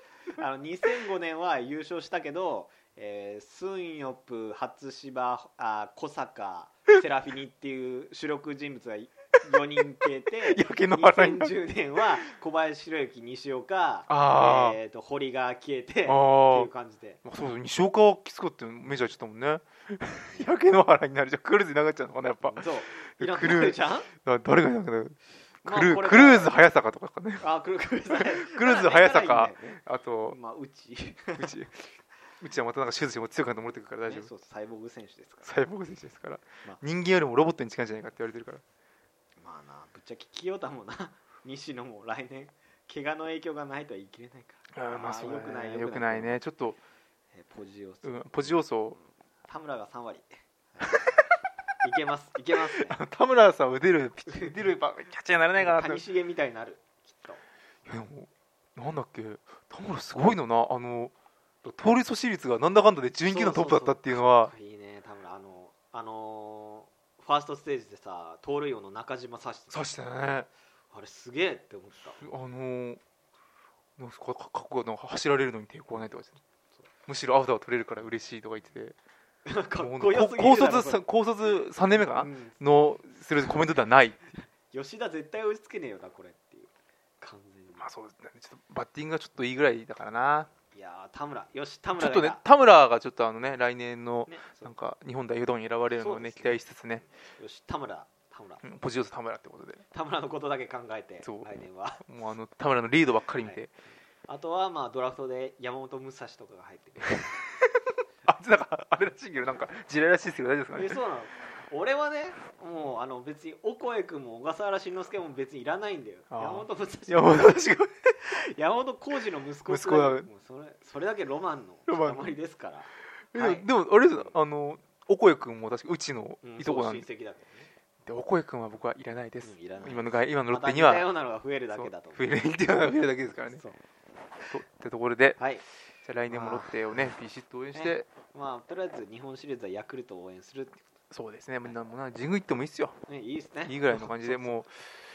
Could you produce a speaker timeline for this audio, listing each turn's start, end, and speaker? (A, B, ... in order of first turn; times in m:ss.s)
0:00.4-0:17.2 A
0:10.5-0:11.6 B
0:14.1-0:14.8 B
0:16.1-0:16.7 B
0:17.2-0:27.4 B
0:22.4-0:24.1 A
0:25.6-0:26.5 A
0:27.4-0:31.5 A
0:28.1-0:30.4 B
0:31.4-0:31.9 B
0:32.4-0:34.3 B
0:34.1-0:35.5 A
0:35.4-0:38.6 B
0:39.4-0:46.4 A
0:44.8-0:46.8 B
0:47.3-0:48.6 A
0:48.0-0:49.0 B
0:49.5-0:51.1 A
0:51.8-0:53.0 A
0:52.7-0:56.0 B
0:55.6-0:57.4 A
0:57.9-1:01.1 B
1:01.6-1:04.5 B
1:03.2-1:09.8 A
1:09.7-1:10.5 B
1:10.9-1:12.3 A
1:12.2-1:13.0 B
1:14.0-1:16.4 B
1:17.1-1:19.0 B
1:19.5-1:21.0 A
1:19.8-1:24.3 B
1:22.0-1:22.6 A
1:24.7-1:27.9 A
1:27.8-1:30.5 B
1:30.7-1:32.4 A
1:32.0-1:37.0 B
1:34.3-1:34.7 A
1:35.9-1:36.6 A
1:37.2-1:38.6 A
1:38.6-1:39.8 B
1:39.9-1:42.0 A
1:41.2-1:41.5 B
1:42.0-1:43.7 B
1:44.3-1:47.4 A
1:47.1-1:51.0 B
1:50.7-1:57.6 A
1:56.3-1:58.2 B
1:58.2-2:04.3 A
1:59.7-2:00.3 B
2:01.9-2:02.3 B
2:03.3-2:07.1 B
2:06.4-2:07.7 A
2:08.1-2:11.1 B
2:09.4-2:12.3 A
2:11.7-2:13.6 B
2:13.5-2:13.8 A
2:14.5-2:15.4 B
2:15.4-2:15.6 A
2:16.0-2:18.1 B
2:16.3-2:17.1 A
2:17.8-2:20.8 A
2:21.1-2:23.0 B
2:23.1-2:24.7 A
2:23.6-2:25.0 B